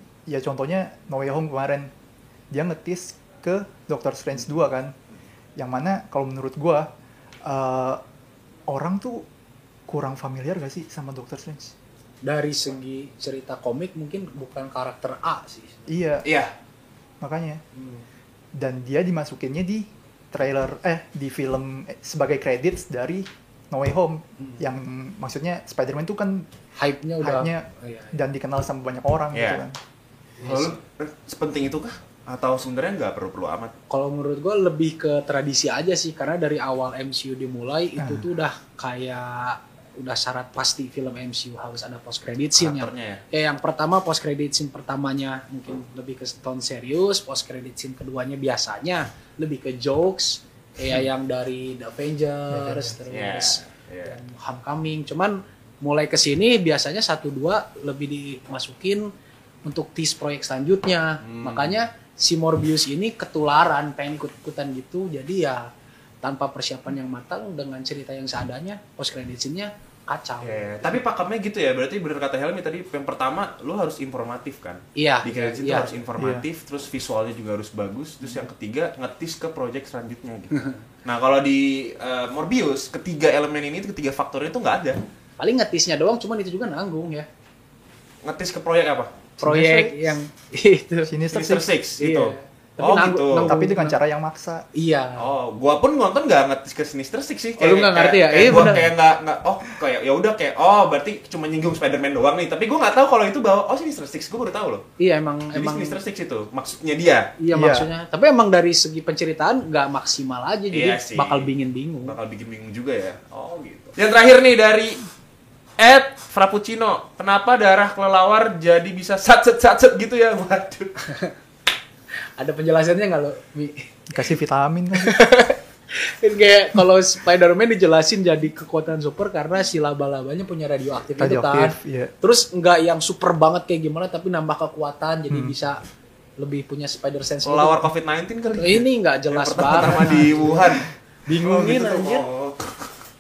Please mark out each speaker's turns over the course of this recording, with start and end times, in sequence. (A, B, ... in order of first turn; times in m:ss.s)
0:00.3-0:01.9 A
0:02.5-0:04.9 A
0:05.6-0:06.9 A
0:07.5-0:08.0 A
0:08.7-0:09.3 A
0:09.9-0:11.8 A
0:12.2-0:15.9 B
0:15.9-0:16.2 A
0:16.2-0:16.5 C
0:17.2-0:17.6 A
0:17.8-0:18.0 B
0:18.6-0:26.5 A
0:26.8-0:28.2 B
0:27.2-0:29.8 A
0:29.3-0:29.6 C
0:30.4-0:30.8 B
0:30.4-0:33.7 C
0:33.9-0:59.1 B
0:38.0-0:38.2 A
0:42.6-0:43.2 C
0:52.5-0:52.9 A
0:53.1-0:54.2 C
0:59.6-1:05.7 B
1:01.2-1:01.8 C
1:06.2-1:11.0 B
1:10.4-1:25.0 C
1:15.0-1:15.9 B
1:16.2-1:16.5 A
1:20.5-1:20.8 B
1:25.4-1:27.3 B
1:28.2-1:29.2 C
1:29.4-1:30.1 A
1:29.4-1:31.2 B
1:31.1-1:31.7 A
1:31.3-1:33.6 C
1:32.0-1:34.0 B
1:33.4-1:34.7 A
1:34.8-1:35.3 B
1:35.2-1:44.8 C
1:37.6-1:38.9 B
1:38.5-1:38.8 A
1:45.0-1:46.0 B
1:45.6-1:47.3 C
1:47.4-1:52.2 B
1:47.5-1:47.9 A
1:50.7-1:51.5 C
1:52.0-1:55.0 C
1:55.8-2:01.0 C
2:01.1-2:01.3 B
2:02.4-2:03.9 B
2:04.1-2:05.2 A
2:05.0-2:15.8 B
2:11.2-2:12.1 A
2:16.4-2:17.8 B
2:17.4-2:22.8 C
2:18.6-2:20.6 B
2:20.0-2:20.7 A
2:21.3-2:22.3 B